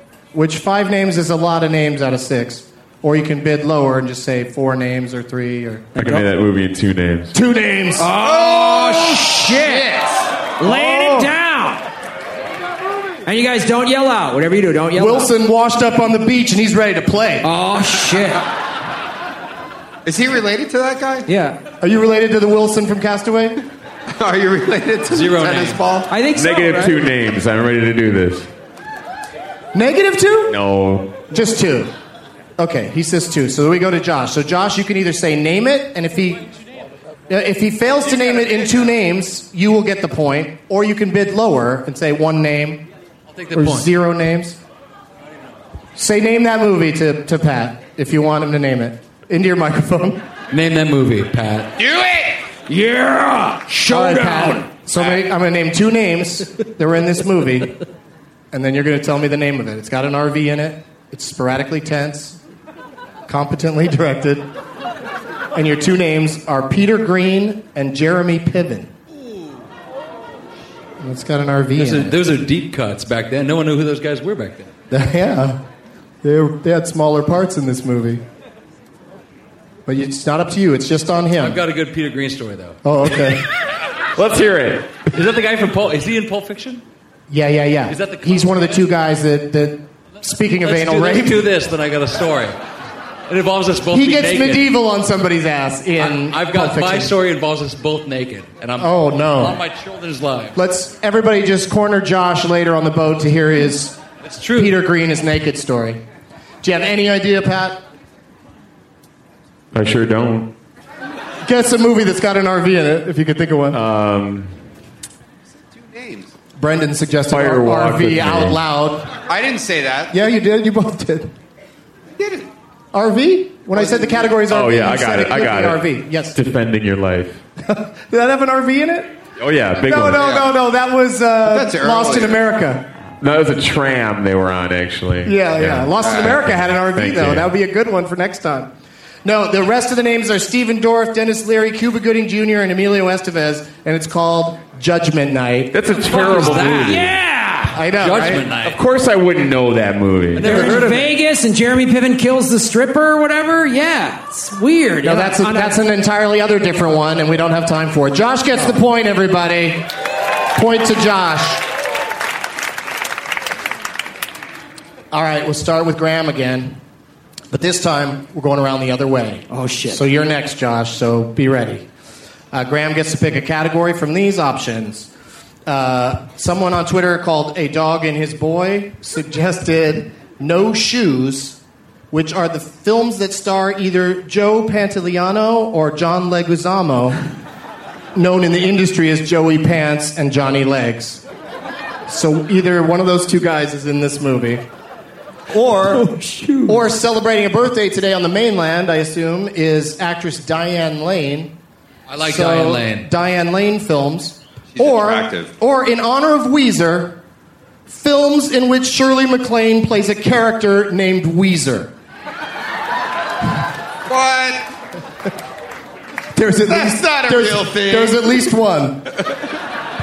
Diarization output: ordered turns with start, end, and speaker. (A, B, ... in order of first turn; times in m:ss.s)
0:00.3-0:06.2 A
0:06.0-0:07.3 B
0:07.3-0:08.1 A
0:08.0-0:09.9 C
0:08.2-0:09.3 D
0:09.8-0:10.1 D
0:10.6-0:11.8 C
0:10.6-0:11.3 A
0:13.2-0:15.3 C
0:14.9-0:17.4 A
0:17.4-0:18.4 C
0:20.0-0:21.2 D
0:21.2-0:21.6 C
0:21.8-0:23.6 A
0:24.1-0:26.1 D
0:25.1-0:25.8 E
0:26.1-0:27.0 C
0:26.3-0:28.5 B
0:29.7-0:30.6 A
0:30.5-0:31.2 B
0:31.3-0:31.9 A
0:32.6-0:36.4 A
0:37.3-0:42.8 A
0:43.3-0:43.9 E
0:43.5-0:44.6 A
0:46.0-0:50.2 A
0:50.5-0:51.7 E
0:51.8-0:52.4 D
0:52.7-0:54.7 C
0:53.9-0:57.7 A
0:54.9-0:55.2 D
0:58.5-1:02.4 A
1:03.3-1:04.4 A
1:05.5-1:08.9 A
1:11.0-1:12.2 A
1:11.7-1:14.7 E
1:14.9-1:15.6 A
1:16.2-1:18.2 A
1:19.8-1:21.6 A
1:21.4-1:22.8 E
1:22.8-1:23.4 A
1:24.2-1:25.0 B
1:25.1-1:26.8 E
1:27.3-1:31.4 A
1:27.9-1:28.8 E
1:30.6-1:32.6 E
1:33.3-1:34.6 E
1:33.9-1:37.1 A
1:36.0-1:40.6 E
1:38.8-1:39.6 A
1:40.5-1:44.0 A
1:44.2-1:44.8 E
1:44.6-1:46.0 A
1:46.6-1:47.8 A
1:49.7-1:50.5 B
1:51.4-1:53.8 A
1:53.7-1:54.5 B
1:55.7-1:56.3 D
1:56.6-1:59.1 A
1:57.3-1:58.6 B
1:59.3-2:00.1 D
2:00.1-2:01.3 A
2:02.2-2:02.5 D
2:02.9-2:06.4 A
2:03.7-2:04.4 D
2:04.4-2:07.4 B
2:07.6-2:09.1 A
2:09.4-2:10.2 B
2:09.8-2:12.8 A
2:10.1-2:10.5 D
2:11.4-2:12.4 D
2:13.2-2:17.5 B
2:15.2-2:18.7 A
2:16.0-2:16.4 D
2:19.2-2:25.7 A
2:25.7-2:27.1 B
2:26.1-2:27.8 C
2:26.1-2:27.1 E
2:27.7-2:28.5 A
2:28.0-2:28.8 E
2:28.3-2:30.7 B
2:30.3-2:31.1 E
2:30.4-2:35.8 C
2:35.0-2:39.9 A
2:40.5-2:41.6 A
2:45.1-2:46.8 A
2:47.5-2:51.8 A
2:49.5-2:50.0 C
2:52.5-2:55.1 A
2:55.6-3:01.6 A
3:02.1-3:07.2 A
3:08.1-3:11.2 A
3:12.1-3:14.6 A
3:15.5-3:16.1 A
3:15.9-3:16.8 C
3:16.6-3:21.5 A
3:22.1-3:23.1 E
3:22.2-3:27.2 A
3:24.8-3:25.5 D
3:27.9-3:31.9 A
3:34.1-3:34.7 D
3:36.3-3:39.0 A
3:36.7-3:38.4 D